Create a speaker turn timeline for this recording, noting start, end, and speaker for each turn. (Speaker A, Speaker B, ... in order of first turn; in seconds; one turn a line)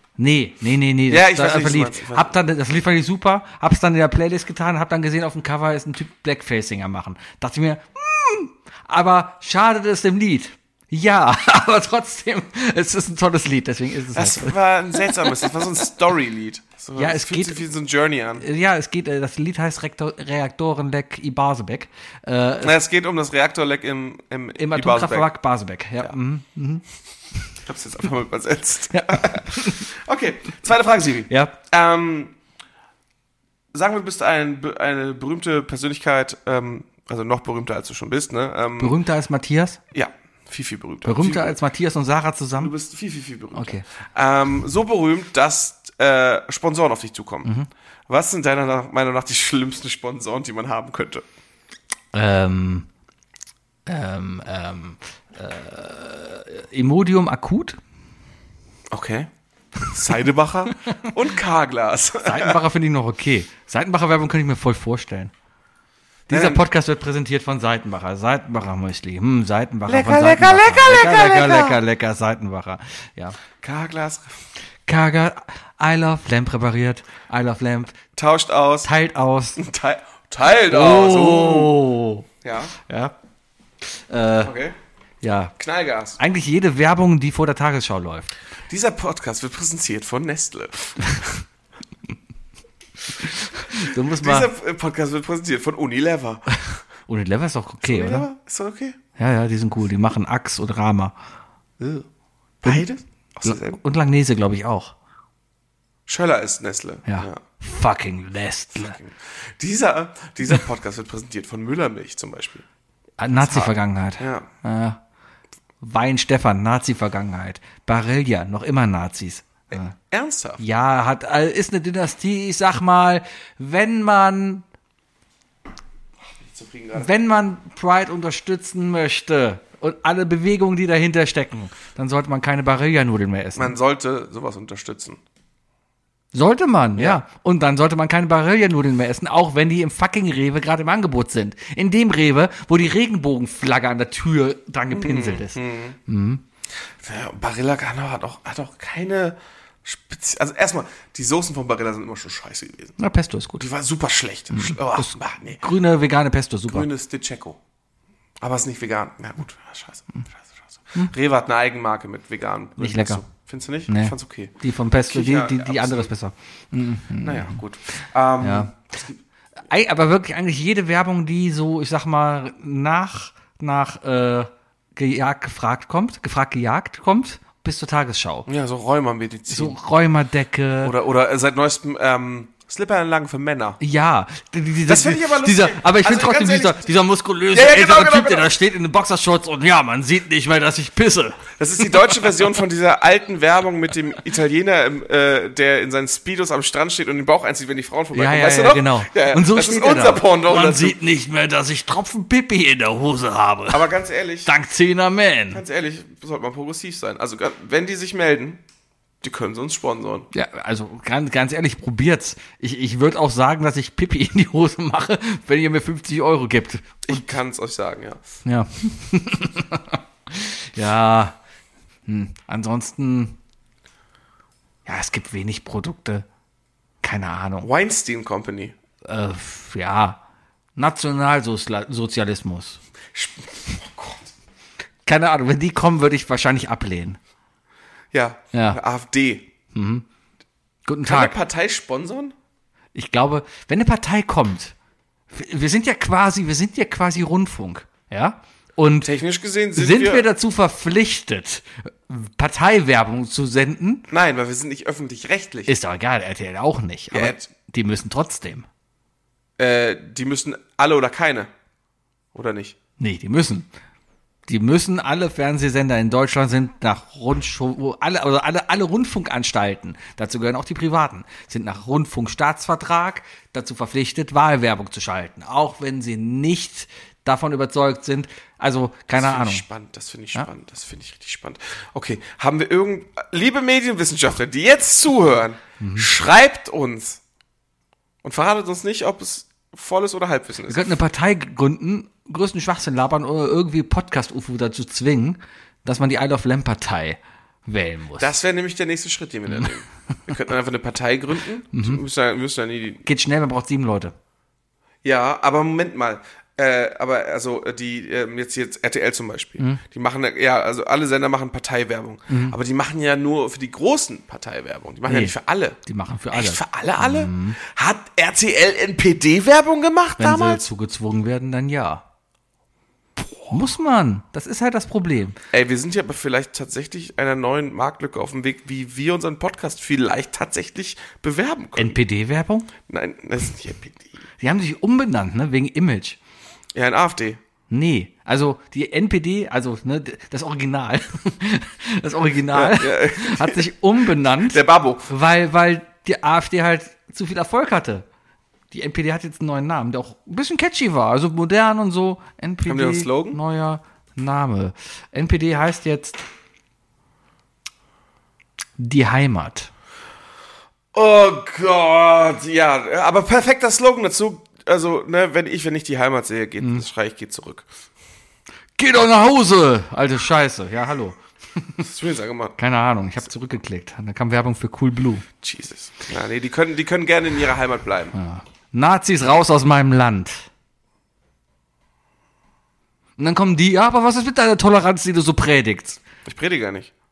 Speaker A: 0.2-15.5
Speaker B: 1.1-2.4
Speaker B: 14.1-18.4
Speaker A: 16.9-17.6
Speaker A: 18.4-22.7
Speaker B: 22.6-25.3
Speaker A: 24.6-26.8
Speaker B: 27.6-32.4
Speaker A: 28.9-29.9
Speaker A: 31.3-31.6
Speaker B: 33.7-39.0
Speaker A: 38.8-39.8
Speaker B: 39.9-41.6
Speaker A: 41.0-42.7
Speaker B: 42.6-47.5
Speaker A: 43.5-43.9
Speaker B: 48.1-51.2
Speaker A: 52.1-52.9
Speaker A: 53.9-57.8
Speaker B: 58.9-59.3
Speaker B: 59.9-62.6
Speaker A: 62.2-65.3
Speaker B: 66.3-66.6
Speaker A: 66.3-73.4
Speaker B: 69.9-71.8
Speaker B: 73.6-74.4
Speaker A: 74.9-78.0
Speaker B: 78.2-78.9
Speaker A: 78.8-79.6
Speaker B: 79.6-81.8
Speaker A: 80.6-82.3
Speaker B: 82.4-82.7
Speaker A: 82.8-83.1
Speaker A: 83.9-84.5
Speaker B: 84.4-84.8
Speaker A: 85.2-85.5
Speaker B: 85.6-86.2
Speaker A: 86.2-88.3
Speaker B: 88.7-91.3
Speaker A: 91.0-91.3
Speaker A: 93.2-94.5
Speaker B: 93.7-96.5
Speaker A: 97.1-98.3
Speaker B: 97.8-99.0
Speaker A: 99.2-101.1
Speaker B: 101.8-102.1
Speaker B: 102.6-103.8
Speaker A: 103.4-104.9
Speaker B: 106.1-107.4
Speaker A: 107.0-109.0
Speaker B: 108.7-112.6
Speaker A: 113.2-115.0
Speaker B: 113.4-114.5
Speaker A: 115.8-120.0
Speaker B: 119.7-120.6
Speaker A: 120.6-124.6
Speaker B: 126.4-127.1
Speaker A: 126.9-133.7
Speaker B: 133.6-135.2
Speaker A: 136.3-146.4
Speaker B: 136.9-137.2
Speaker B: 144.9-146.0
Speaker B: 147.0-153.0
Speaker A: 153.0-153.7
Speaker B: 153.6-155.6
Speaker A: 154.5-156.9
Speaker B: 156.7-157.6
Speaker B: 158.4-160.4
Speaker B: 160.9-164.5
Speaker A: 162.8-163.2
Speaker A: 163.9-167.6
Speaker B: 165.1-166.1
Speaker B: 167.2-169.2
Speaker A: 168.4-168.7
Speaker A: 169.7-178.5
Speaker B: 178.5-179.8
Speaker A: 179.5-180.9
Speaker B: 180.8-183.8
Speaker A: 183.8-192.1
Speaker B: 184.9-186.9
Speaker B: 187.5-188.5
Speaker B: 191.6-201.0
Speaker A: 198.1-203.9
Speaker B: 203.7-204.5
Speaker A: 204.4-205.6
Speaker B: 205.5-208.6
Speaker B: 209.2-210.3
Speaker A: 210.3-217.3
Speaker B: 217.1-218.2
Speaker A: 218.4-221.4
Speaker A: 222.1-223.4
Speaker A: 224.9-226.3
Speaker A: 227.0-227.7
Speaker B: 227.6-228.7
Speaker A: 229.0-230.2
Speaker A: 230.8-232.8
Speaker B: 233.1-234.3
Speaker A: 235.1-237.2
Speaker B: 238.1-239.5
Speaker A: 238.5-238.8
Speaker A: 239.7-240.1
Speaker A: 240.9-241.4
Speaker B: 241.1-242.3
Speaker A: 242.9-244.7
Speaker A: 245.3-249.1
Speaker B: 249.0-250.3
Speaker A: 249.7-254.1
Speaker B: 254.1-255.7
Speaker A: 255.7-258.7
Speaker B: 257.1-257.5
Speaker B: 259.6-261.5
Speaker B: 262.3-262.8
Speaker A: 263.0-263.7
Speaker A: 264.5-279.6
Speaker B: 279.1-287.2
Speaker A: 285.8-286.1
Speaker B: 288.2-290.9
Speaker A: 290.7-298.4
Speaker B: 298.2-303.0
Speaker A: 301.7-302.0
Speaker A: 303.1-304.1
Speaker B: 305.0-315.8
Speaker A: 312.3-312.6
Speaker A: 315.1-317.6
Speaker B: 316.3-320.7
Speaker A: 320.2-322.0
Speaker A: 323.5-325.4
Speaker B: 325.5-332.0
Speaker A: 331.8-332.7
Speaker B: 332.8-334.2
Speaker A: 334.4-336.2
Speaker B: 336.7-337.4
Speaker A: 337.7-348.1
Speaker B: 342.5-345.1
Speaker A: 348.7-356.2
Speaker B: 352.7-353.4
Speaker A: 358.8-359.7
Speaker B: 360.9-367.7
Speaker A: 366.6-366.9
Speaker A: 368.8-371.9
Speaker B: 371.8-372.6
Speaker A: 372.6-375.3
Speaker B: 375.4-378.1
Speaker A: 378.1-380.5
Speaker A: 383.2-386.0
Speaker B: 386.3-386.9